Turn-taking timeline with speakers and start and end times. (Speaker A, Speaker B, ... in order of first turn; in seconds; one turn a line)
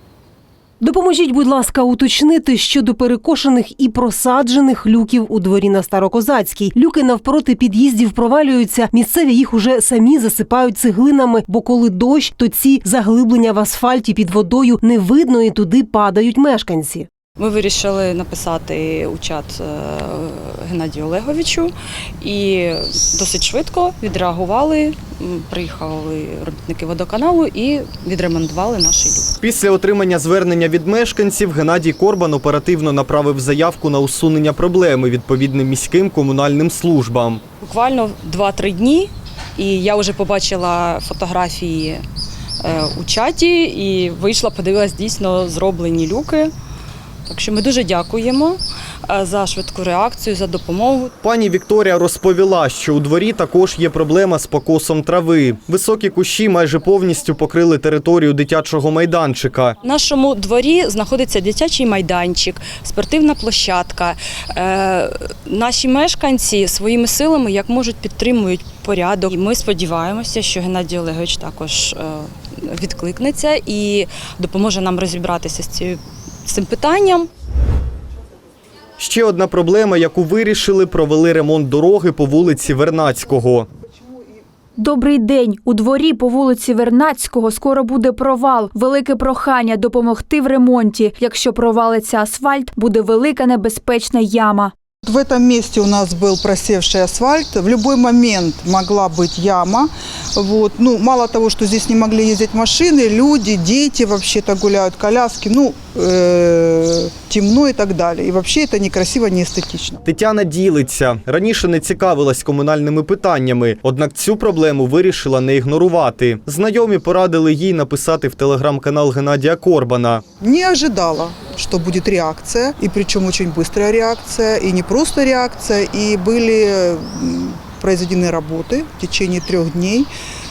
Speaker A: 0.8-17.1
Speaker B: 17.4-29.4
Speaker C: 29.4-37.4
Speaker B: 37.6-42.0
Speaker B: 42.6-46.5
Speaker B: 47.3-51.1
Speaker C: 51.2-59.8
Speaker B: 59.8-77.3
Speaker C: 79.0-83.7
Speaker D: 84.8-94.7
Speaker E: 95.0-110.0
Speaker C: 110.0-120.2
Speaker E: 120.4-130.1